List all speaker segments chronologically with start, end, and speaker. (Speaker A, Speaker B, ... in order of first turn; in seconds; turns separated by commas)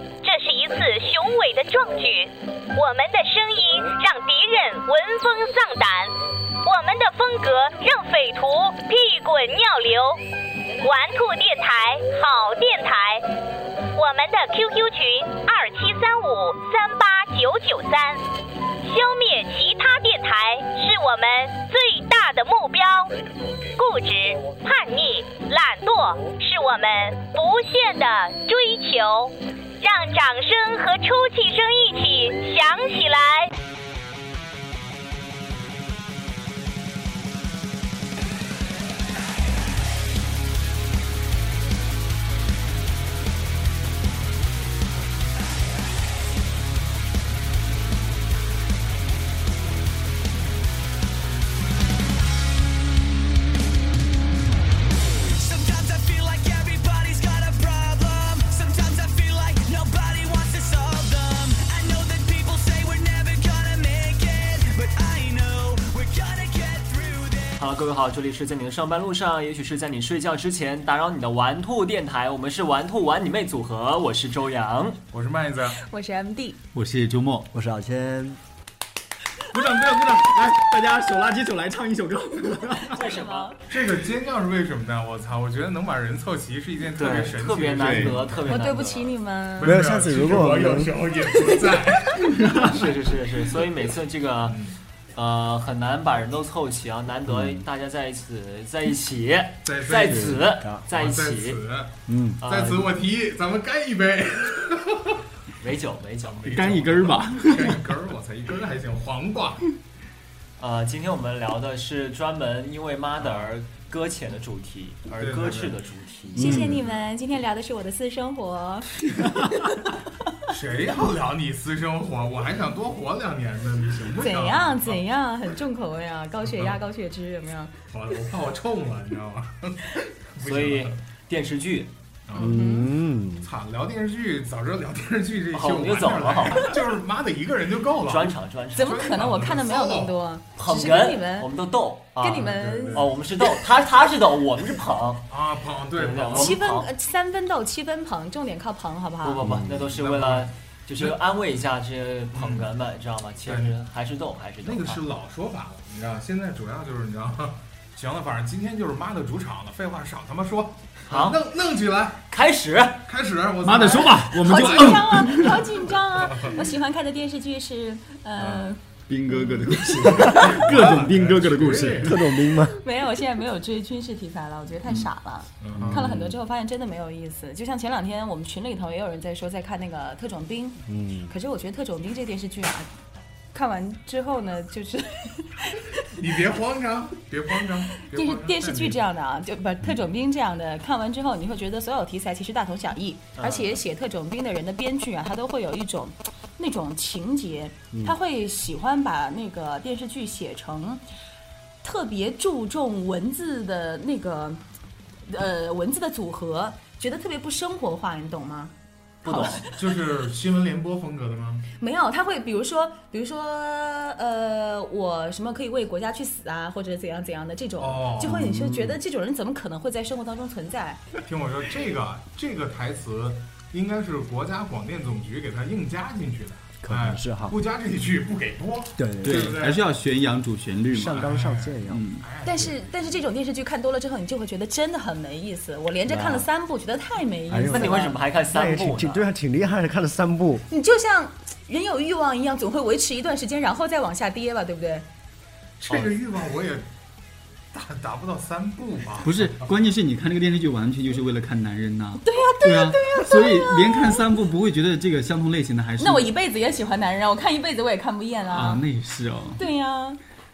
Speaker A: 0.2-10.2, Speaker A: 10.8-13.3, Speaker A: 13.9-18.2, Speaker A: 18.8-23.2, Speaker A: 23.8-33.5, Speaker B: 55.3-67.6, Speaker C: 67.6-75.0, Speaker D: 75.1-75.8, Speaker E: 75.8-76.6, Speaker F: 76.7-77.5, Speaker G: 77.5-78.4, Speaker F: 79.5-83.0, Speaker C: 82.9-83.6, Speaker E: 82.9-83.6, Speaker D: 83.7-88.6, Speaker C: 86.9-89.1, Speaker E: 88.5-89.8, Speaker D: 89.6-93.0, Speaker G: 89.6-91.0, Speaker F: 92.4-92.7, Speaker C: 92.5-94.6, Speaker D: 94.5-94.8, Speaker C: 95.1-101.6, Speaker G: 97.3-97.6, Speaker D: 99.6-105.2, Speaker G: 100.0-100.8, Speaker G: 102.1-102.4, Speaker C: 102.4-103.0, Speaker C: 105.6-107.1, Speaker D: 106.2-109.7, Speaker F: 106.5-107.8, Speaker C: 110.6-116.9, Speaker D: 113.2-113.5, Speaker D: 115.2-115.8, Speaker E: 116.4-119.8, Speaker F: 116.4-116.8, Speaker D: 120.5-125.0, Speaker E: 124.2-127.7, Speaker D: 126.4-126.8, Speaker D: 127.9-131.0, Speaker C: 130.4-131.9, Speaker D: 132.3-132.6, Speaker G: 132.3-133.5, Speaker E: 132.4-132.9, Speaker D: 133.4-140.2, Speaker C: 135.5-136.8, Speaker C: 138.0-139.2, Speaker E: 138.7-141.5, Speaker C: 140.6-145.3, Speaker E: 142.2-143.1, Speaker D: 142.4-143.1, Speaker D: 145.3-146.6, Speaker C: 145.9-146.9, Speaker E: 146.3-149.4, Speaker C: 149.2-155.0, Speaker G: 149.4-150.0, Speaker D: 149.8-151.2, Speaker D: 152.3-152.7, Speaker D: 153.4-153.7, Speaker D: 154.6-162.2, Speaker C: 161.1-161.4, Speaker C: 162.3-163.0, Speaker D: 163.0-166.7, Speaker F: 163.6-165.6, Speaker E: 164.2-168.8, Speaker D: 168.4-168.6, Speaker F: 169.1-172.3, Speaker E: 169.3-170.6, Speaker G: 170.0-170.4, Speaker D: 170.3-172.2, Speaker G: 172.0-172.8, Speaker E: 172.6-182.9, Speaker D: 175.6-176.1, Speaker G: 175.7-176.3, Speaker G: 180.8-181.3, Speaker E: 183.5-186.0, Speaker D: 186.1-189.0, Speaker E: 188.0-201.0, Speaker C: 193.4-193.8, Speaker E: 201.8-204.6, Speaker E: 205.3-208.7, Speaker C: 209.2-209.6, Speaker E: 209.2-209.7, Speaker D: 209.7-211.6, Speaker E: 211.8-221.0, Speaker D: 217.8-218.4, Speaker G: 218.2-219.0, Speaker D: 221.2-229.8, Speaker G: 226.8-227.6, Speaker G: 229.0-229.6, Speaker F: 229.2-231.3, Speaker G: 230.9-232.0, Speaker D: 231.1-233.2, Speaker F: 231.8-232.3, Speaker E: 232.4-238.2, Speaker C: 236.1-236.4, Speaker G: 237.5-240.7, Speaker C: 237.7-239.3, Speaker E: 240.7-245.1, Speaker D: 245.8-246.8, Speaker D: 247.7-249.7, Speaker F: 249.2-256.3, Speaker E: 252.2-254.4, Speaker E: 256.0-258.8, Speaker F: 258.5-259.6, Speaker E: 259.6-260.2